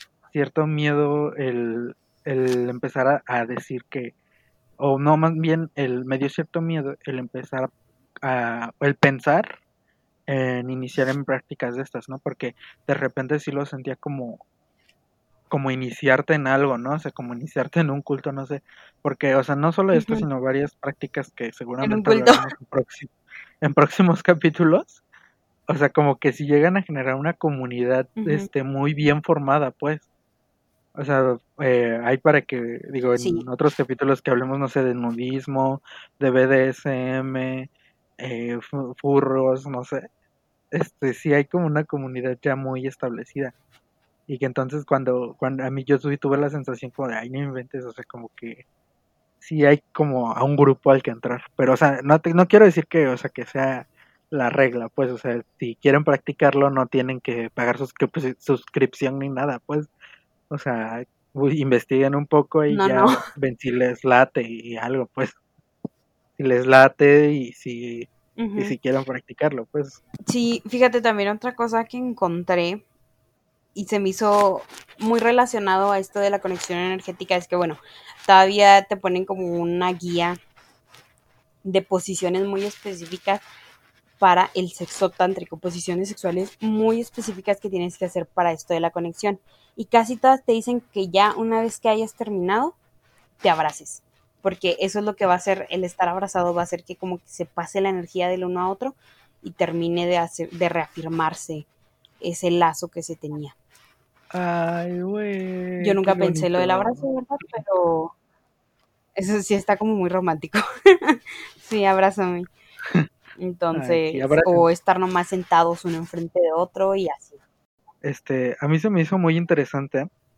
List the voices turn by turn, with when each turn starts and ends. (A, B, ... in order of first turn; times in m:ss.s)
0:00.3-0:04.1 A
0:04.8-0:09.6 A
0:10.3-0:14.4 A
0:15.5-0:23.1 A
0:19.9-0:20.2 B
0:21.8-0:22.5 B
0:23.6-0:25.0 A
0:25.7-0:30.0 A
0:28.2-0:28.5 B
0:30.9-0:40.1 A
0:33.2-0:33.4 B
0:40.7-0:43.5 A
0:44.3-0:48.6 A
0:49.4-0:59.9 A
1:00.5-1:05.4 A
1:02.7-1:03.2 B
1:06.4-1:10.0 A
1:08.4-1:08.7 B
1:10.2-1:12.8 B
1:13.7-1:20.4 B
1:21.6-1:23.4 B
1:24.2-1:32.7 B
1:33.4-1:41.7 B
1:42.2-1:43.5 B
1:44.3-1:47.0 A
1:45.8-1:48.1 B
1:49.2-1:52.5 B
1:53.4-1:57.4 B
1:53.7-1:54.7 A
1:58.0-2:00.1 A